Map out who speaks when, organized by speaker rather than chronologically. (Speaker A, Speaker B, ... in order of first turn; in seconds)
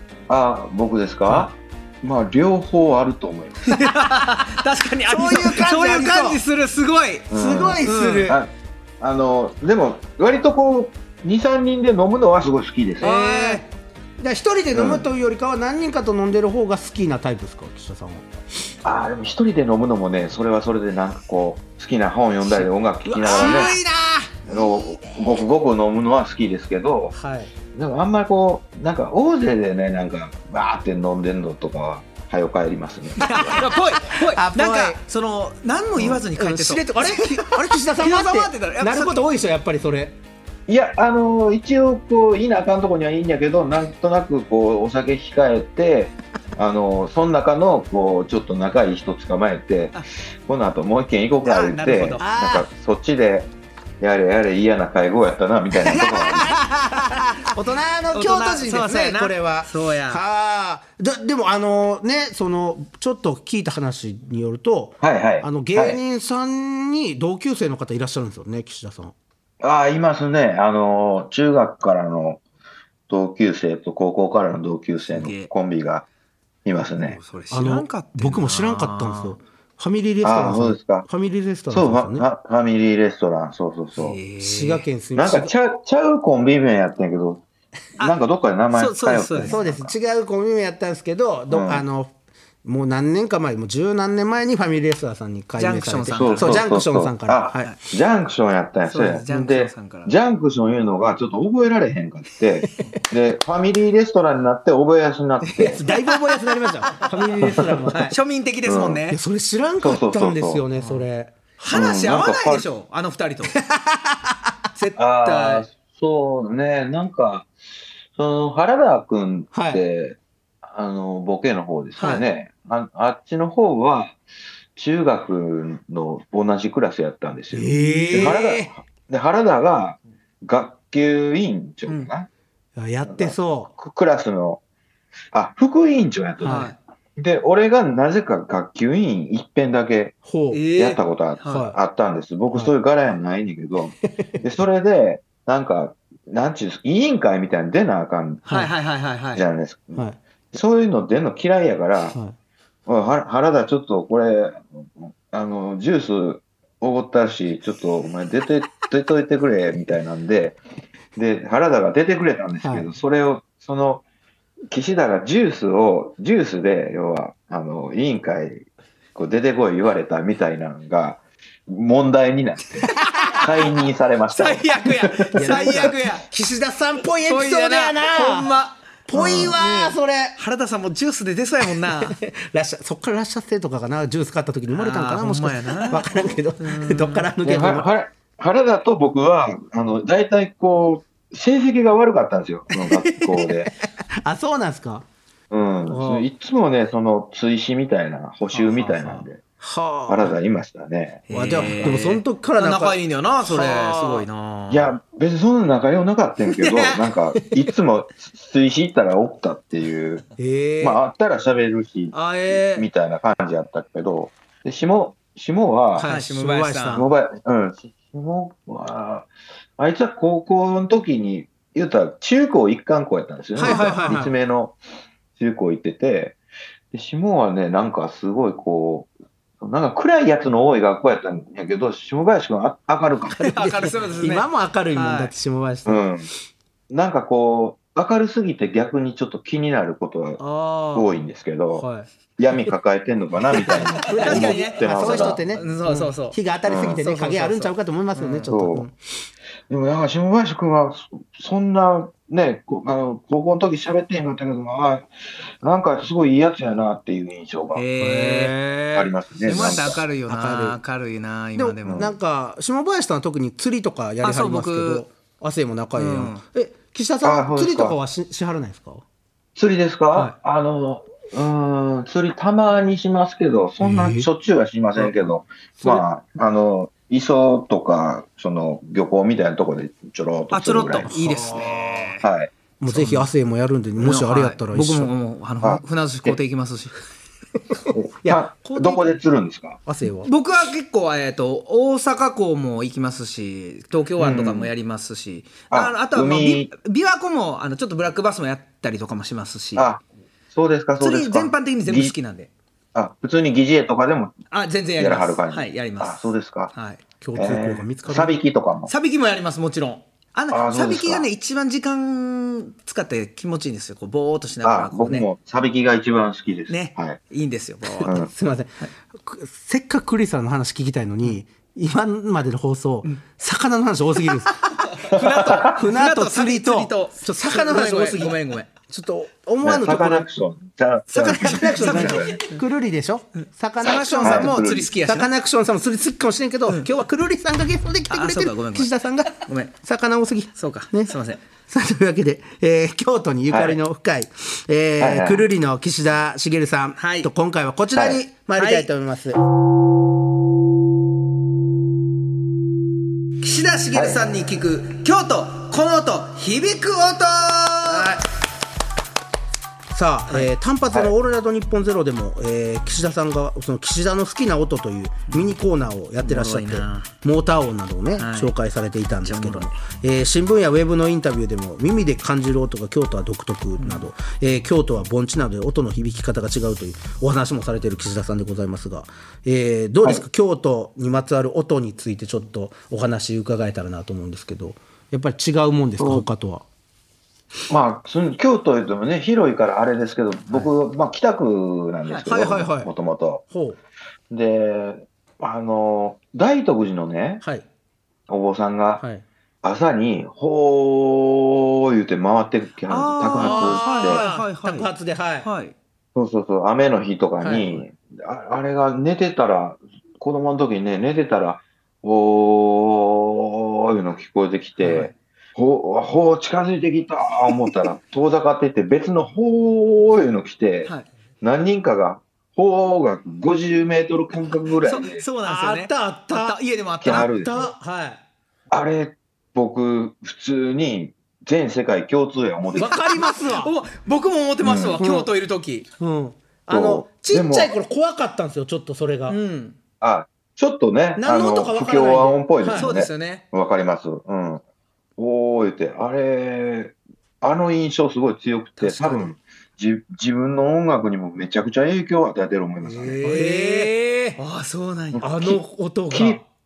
Speaker A: 0.3-3.8, 7.3-13.2, 14.7-15.1, 18.9-23.8, 24.5-27.1, 27.7-33.7, 36.0-36.2, 40.7-56.5, 65.0-66.0, 69.6-72.4, 73.1-76.0, 76.7-77.2, 80.2-81.1, 81.7-84.2, 85.2-87.4, 88.0-89.9, 91.5-91.8, 96.2-105.8, 107.4-107.9, 108.7-109.0, 109.8-110.6, 111.7-112.7, 115.0-117.5, 118.1-124.2, 124.8-132.3, 133.1-134.6, 135.3-140.2, 140.8-148.6, 149.3-152.2, 152.9-160.6, 161.2-164.0, 164.7-175.9, 179.1-179.6, 187.4-193.7, 195.5-199.4, 200.1-202.0, 204.7-210.3, 210.8-216.1, 216.9-224.8, 225.4-226.4, 226.9-229.1, 229.6-233.4, 235.9-236.3, 236.9-240.4, 240.9-241.9, 242.4-245.5, 246.7-247.0, 248.5-248.9, 249.7-255.1, 255.6-257.8, 258.9-260.0, 261.9-262.1, 267.2-268.0, 269.6-282.5, 285.6-286.4, 287.9-289.8, 294.2-294.7, 295.7-296.7, 299.8-302.1, 302.9-304.4, 305.0-306.7, 307.4-308.9, 310.5-311.3, 314.6-317.2, 318.0-318.3, 325.1-325.7, 329.6-332.4, 334.2-334.9, 343.5-343.8, 345.0-345.5, 347.9-348.2, 353.9-354.2, 386.0-386.3, 387.7-393.4, 394.3-397.4, 398.3-399.0, 399.6-404.2, 406.1-425.2, 427.0-427.5, 428.7-433.0, 434.6-435.0, 436.7-437.7, 440.0-444.6, 445.2-453.3, 455.1-455.6, 456.1-456.4
Speaker B: 3.7-7.3, 7.8-8.4, 13.0-13.6, 23.2-23.8, 33.2-39.2, 51.4-52.2, 55.9-57.4, 58.1-60.2, 75.1-75.5, 77.0-79.4, 84.0-84.8, 88.7-89.6, 95.6-96.6, 98.9-100.2, 107.9-109.2, 110.8-111.0, 111.6-113.6, 114.8-115.7, 122.0-122.2, 127.9-128.3, 136.4-136.8, 140.5-141.7, 148.5-149.4, 174.3-176.3, 177.3-178.8, 179.3-182.2, 184.7-187.3, 198.5-199.2, 201.3-204.9, 206.6-207.1, 212.2-212.9, 216.0-217.1, 223.6-224.2, 233.4-235.3, 243.7-246.4, 247.0-248.6, 257.7-262.1, 264.2-265.0, 266.0-266.4, 280.5-282.2, 282.9-283.3, 284.0-286.9, 290.2-299.9, 301.0-302.5, 304.5-307.0, 308.9-315.3, 316.7-318.1, 324.8-328.7, 331.1-332.6, 333.8-335.3, 338.1-338.9, 339.5-339.7, 340.6-341.4, 347.0-347.3, 348.6-348.9, 353.4-358.2, 366.2-367.1, 368.2-368.5, 369.2-369.7, 373.8-374.1, 402.9-404.9, 405.4-405.7, 414.8-415.1, 424.8-427.4, 432.8-435.9, 439.3-439.8, 442.7-443.4, 448.8-449.3, 452.9-455.3
Speaker C: 5.1-6.4, 7.3-8.4, 13.0-13.6, 14.2-18.3, 23.1-24.3, 27.1-27.5, 33.3-35.0, 36.4-40.2, 52.2-52.7, 56.5-69.1, 77.5-82.3, 84.4-85.5, 89.5-92.1, 92.6-97.7, 105.6-108.2, 109.1-111.3, 113.6-114.3, 119.5-119.8, 127.5-128.7, 132.8-133.7, 136.4-136.7, 140.2-140.6, 141.5-141.8, 162.6-162.9, 173.0-173.4, 175.4-178.6, 179.1-180.4, 182.0-187.9, 192.8-195.1, 195.9-196.3, 199.6-200.3, 201.3-204.3, 210.4-211.0, 216.0-217.1, 223.6-224.3, 233.4-236.1, 240.4-241.1, 241.7-242.1, 243.6-249.0, 258.0-258.6, 259.5-260.8, 261.6-269.0, 273.8-274.3, 281.1-282.1, 282.8-285.1, 288.2-289.2, 289.9-290.3, 307.2-308.4, 317.9-324.6, 325.6-330.3, 331.2-341.1, 341.6-349.4, 357.9-358.2, 359.9-386.6, 392.3-392.9, 393.5-393.8, 399.0-399.2, 403.4-405.5, 407.4-407.8, 425.4-428.2, 432.8-433.7, 435.0-435.3, 436.0-439.4, 441.2-442.9, 453.2-454.4, 455.2-456.4